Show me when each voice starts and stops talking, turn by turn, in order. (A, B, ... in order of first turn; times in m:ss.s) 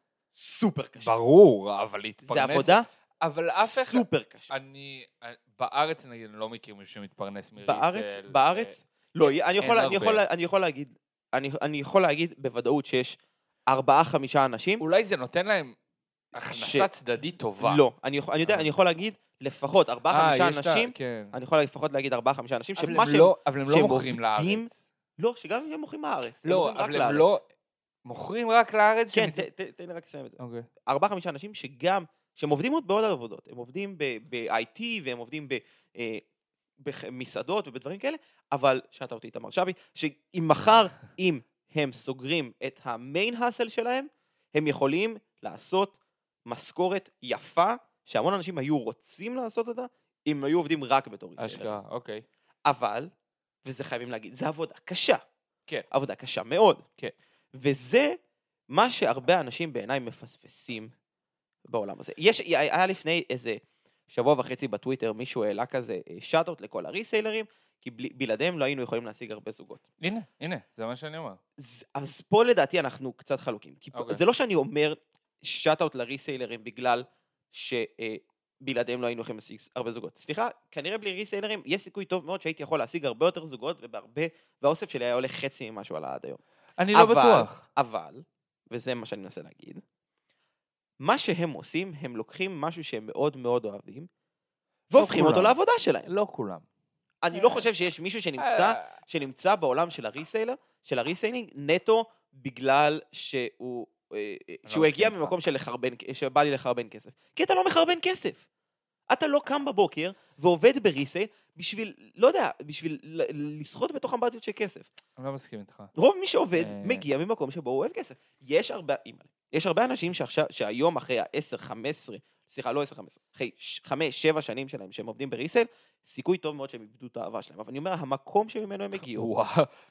0:00.3-0:01.1 A
0:01.0-0:10.2 B
0:02.2-0:02.8 A
0:03.5-0:04.5 A
0:07.6-0:14.8 A
0:14.8-0:15.7 B
0:16.3-0:17.8 B
0:16.5-0:16.9 A
0:17.6-0:27.3 A
0:20.1-0:21.3 B
0:22.8-0:24.8 B
0:26.4-0:27.4 B
0:28.0-0:29.5 B
0:29.1-0:36.2 A
0:30.4-0:30.7 B
0:36.8-0:51.8 A
0:51.4-0:52.2 B
0:52.7-0:53.1 A
0:53.6-0:55.2 A
0:55.9-0:56.8 A
0:57.5-0:58.2 A
0:58.7-1:00.9 A
1:01.7-1:03.6 A
1:04.1-1:09.8 A
1:10.0-1:11.4 B
1:11.6-1:26.4 A
1:13.9-1:14.2 B
1:26.8-1:27.6 B
1:26.9-1:29.8 A
1:31.0-1:34.1 A
1:34.9-1:36.1 A
1:34.9-1:36.6 B
1:37.2-1:48.4 A
1:37.3-1:37.7 B
1:38.4-1:38.9 B
1:44.7-1:45.4 B
1:49.1-1:54.9 A
1:55.2-1:55.9 B
1:55.9-2:09.3 A
1:56.6-1:57.0 B
2:09.0-2:09.7 B